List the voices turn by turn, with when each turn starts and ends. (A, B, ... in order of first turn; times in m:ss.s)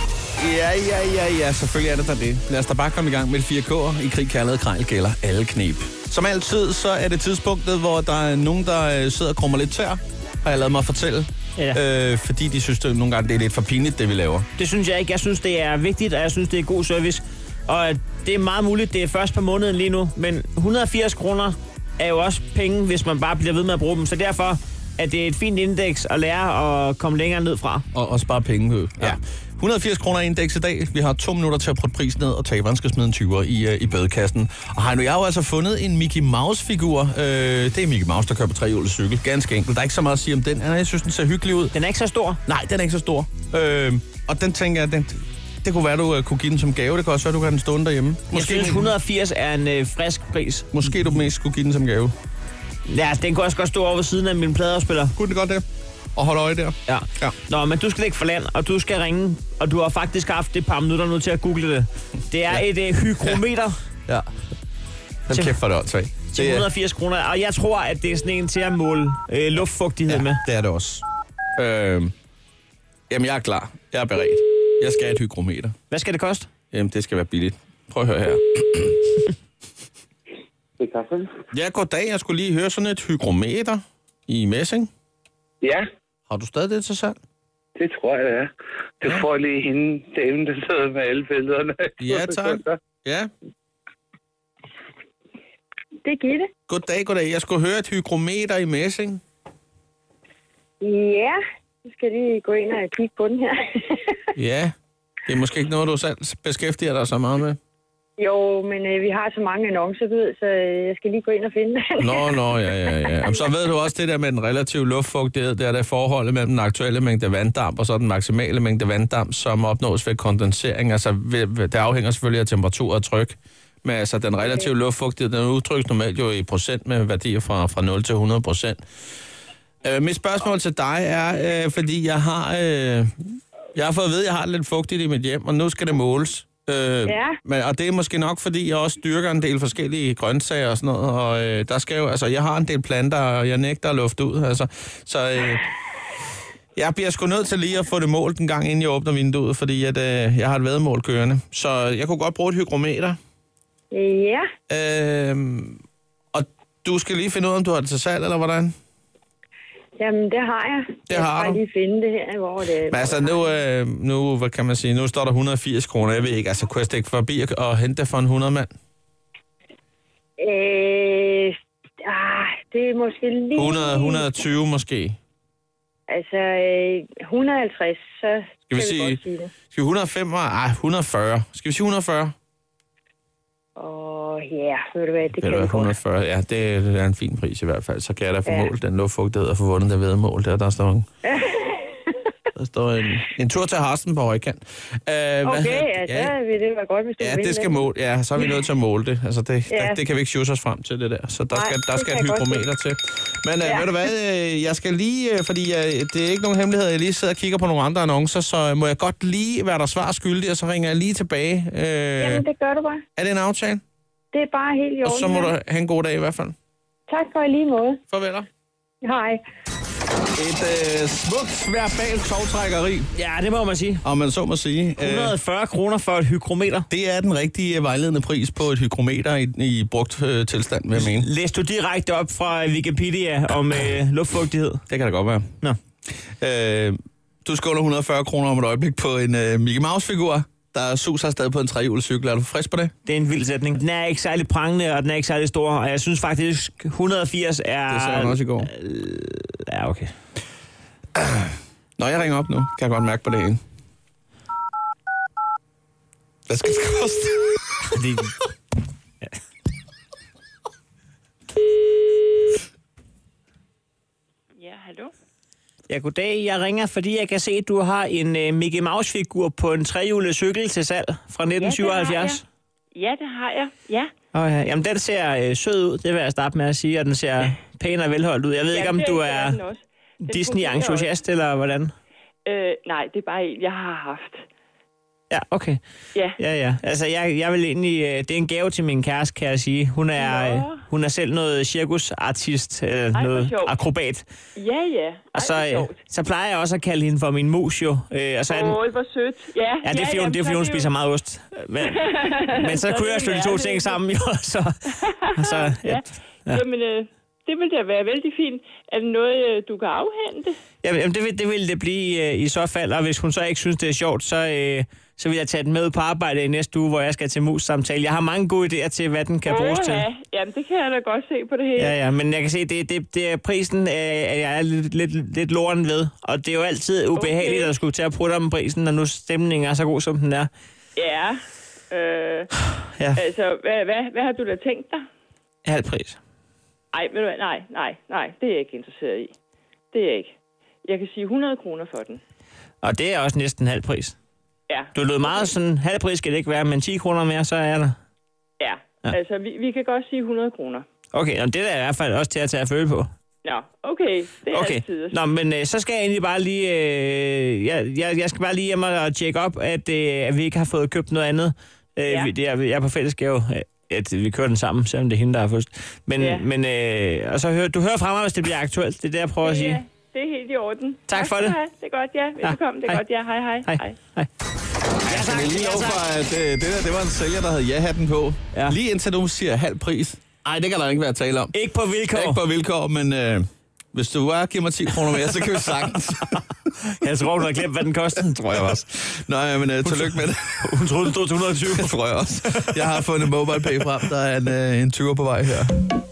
0:00.4-0:14.5 A
0:14.6-0:27.9 B
0:27.9-0:41.8 A
0:41.7-0:42.4 B
0:42.5-0:48.9 A
0:48.3-0:50.7 B
0:50.7-0:52.1 A
0:52.9-0:55.2 B
0:55.2-0:55.6 A
0:56.2-0:57.4 A
0:56.9-1:03.8 B
1:05.3-1:06.7 A
1:05.3-1:05.6 B
1:06.3-1:10.4 B
1:10.1-1:11.0 A
1:11.6-1:12.1 A
1:13.1-1:15.7 A
1:15.9-1:16.5 B
1:16.7-1:19.0 A
1:20.8-1:21.3 C
1:21.5-1:24.9 A
1:26.3-1:27.2 A
1:27.8-1:32.8 C
1:32.0-1:33.3 A
1:36.0-1:36.5 D
1:36.7-1:39.2 A
1:40.8-1:41.4 D
1:41.9-1:44.2 D
1:44.4-1:44.7 A
1:45.3-1:47.6 A
1:48.2-1:52.9 D
1:52.0-2:08.8 A
2:09.8-2:13.1 A
2:13.8-2:25.6 A
2:17.1-2:17.3 D
2:26.8-2:33.2 A
2:33.9-2:34.4 D
2:34.7-2:35.8 A
2:36.3-2:38.7 A
2:40.0-2:43.4 D
2:41.1-2:41.6 A
2:42.9-2:48.7 A
2:50.4-2:54.3 D
2:53.6-2:55.2 A
2:56.1-2:59.5 D
2:58.7-3:02.3 A
3:03.8-3:05.9 D
3:05.4-3:11.1 A
3:11.2-3:12.1 D
3:12.6-3:16.3 A
3:15.4-3:17.9 D
3:17.2-3:32.4 A
3:19.7-3:20.0 D
3:21.5-3:22.7 D
3:23.6-3:23.9 D
3:32.2-3:33.0 D
3:33.2-3:33.8 A
3:34.3-3:35.5 D
3:35.0-3:36.5 A
3:37.1-3:38.0 D
3:38.1-3:38.5 A
3:39.0-3:39.4 D
3:40.4-3:43.1 A
3:43.1-3:44.0 B
3:44.0-3:45.4 A
3:45.0-3:46.9 B
3:46.9-3:51.3 A
3:50.9-3:54.8 B
3:54.9-3:55.5 A
3:56.3-4:02.9 A
4:03.0-4:10.1 B
4:07.9-4:08.7 A
4:11.2-4:13.6 A
4:16.5-4:17.6 A
4:17.9-4:18.3 B
4:24.6-4:25.1 E
4:25.9-4:32.4 B
4:31.6-4:32.4 E
4:33.0-4:34.1 E
4:34.3-4:39.6 B
4:38.7-4:41.1 E
4:40.2-4:41.9 B
4:42.5-4:44.4 E
4:45.3-4:45.8 B
4:46.4-4:54.3 B
4:50.2-4:50.8 E
4:53.2-4:53.8 E
4:54.6-4:56.0 E
4:55.3-4:58.8 B
4:58.5-5:00.9 E
4:59.8-5:06.6 B
5:01.8-5:04.0 E
5:05.1-5:10.6 E
5:10.8-5:20.1 B
5:19.5-5:22.0 E
5:21.8-5:30.5 B
5:27.2-5:27.7 E
5:31.0-5:31.4 E
5:31.9-5:32.5 E
5:32.9-5:33.2 B
5:33.2-5:35.0 E
5:35.6-5:36.2 B
5:36.9-5:39.3 E
5:39.9-5:40.3 E
5:40.8-5:42.2 E
5:42.8-5:44.2 B
5:44.7-5:45.5 E
5:44.9-5:48.0 B
5:48.6-5:50.9 E
5:51.1-5:53.1 B
5:53.4-5:55.2 E
5:54.5-6:09.8 B
6:06.2-6:06.5 E
6:09.4-6:14.0 E
6:11.1-6:11.6 B
6:12.4-6:13.0 B
6:13.7-6:14.3 B
6:15.0-6:21.5 A
6:15.1-6:16.1 B
6:21.5-6:22.4 B
6:22.1-6:26.4 A
6:25.2-6:28.8 B
6:28.4-6:30.7 A
6:29.8-6:31.9 B
6:31.7-6:35.7 A
6:32.5-6:32.8 B